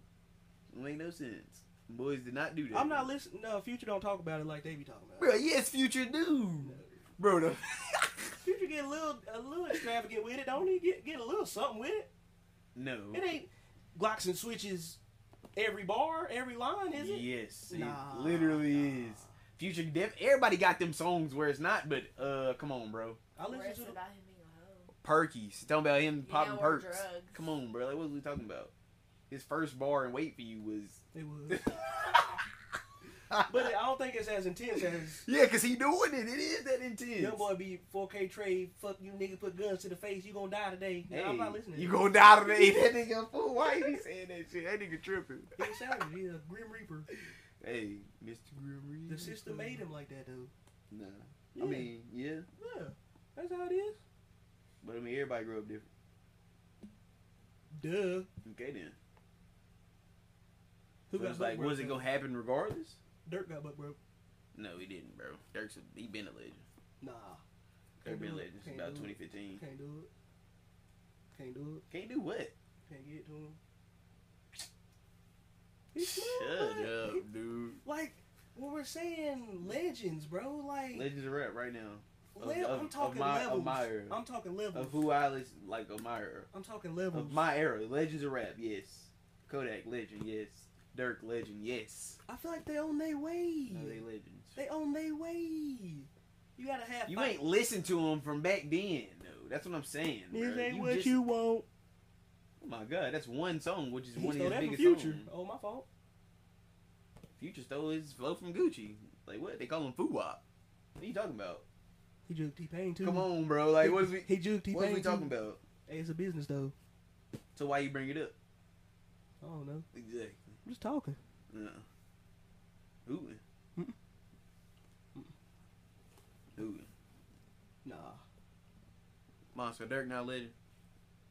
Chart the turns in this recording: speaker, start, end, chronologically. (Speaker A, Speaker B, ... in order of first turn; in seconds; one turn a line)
Speaker A: 0.7-3.1
Speaker B: 2.7-5.4
Speaker A: 5.2-8.4
Speaker B: 6.6-7.0
Speaker B: 8.4-12.1
Speaker A: 12.7-13.3
Speaker B: 13.1-15.0
Speaker B: 15.5-19.4
Speaker A: 17.0-23.2
Speaker B: 23.4-24.0
Speaker C: 23.4-24.9
Speaker A: 25.0-28.7
Speaker C: 26.2-27.5
Speaker A: 29.3-32.8
Speaker B: 31.1-31.7
Speaker A: 33.3-33.7
Speaker B: 33.5-35.2
Speaker A: 35.2-37.4
Speaker B: 37.2-42.7
Speaker A: 41.1-45.7
Speaker B: 45.6-47.1
Speaker A: 47.1-49.8
Speaker B: 49.1-50.5
Speaker A: 50.9-52.5
Speaker B: 51.6-51.9
Speaker B: 52.5-54.0
Speaker A: 54.8-55.9
Speaker B: 57.7-58.3
Speaker A: 58.4-59.0
Speaker B: 61.1-62.0
Speaker A: 61.1-63.0
Speaker B: 63.2-64.0
Speaker A: 64.5-66.7
Speaker B: 67.0-67.4
Speaker B: 68.0-70.1
Speaker A: 68.0-69.6
Speaker B: 71.3-71.8
Speaker A: 71.9-72.5
Speaker B: 72.9-73.6
Speaker B: 75.9-77.2
Speaker A: 76.0-77.8
Speaker B: 77.8-81.1
Speaker A: 80.9-84.2
Speaker B: 82.3-85.0
Speaker A: 84.7-86.5
Speaker B: 86.5-87.5
Speaker A: 87.1-92.2
Speaker B: 92.3-94.0
Speaker A: 93.7-94.6
Speaker B: 94.5-97.4
Speaker A: 97.1-101.2
Speaker B: 100.3-101.7
Speaker A: 102.6-105.3
Speaker B: 104.1-105.8
Speaker A: 107.4-110.4
Speaker A: 111.0-111.6
Speaker B: 112.3-115.3
Speaker A: 113.0-115.6
Speaker B: 115.9-116.7
Speaker A: 117.5-118.3
Speaker B: 119.4-119.9
Speaker A: 119.9-120.5
Speaker B: 120.6-121.2
Speaker A: 121.5-121.8
Speaker A: 123.0-123.4
Speaker A: 126.5-126.9
Speaker B: 127.8-128.2
Speaker A: 129.5-130.5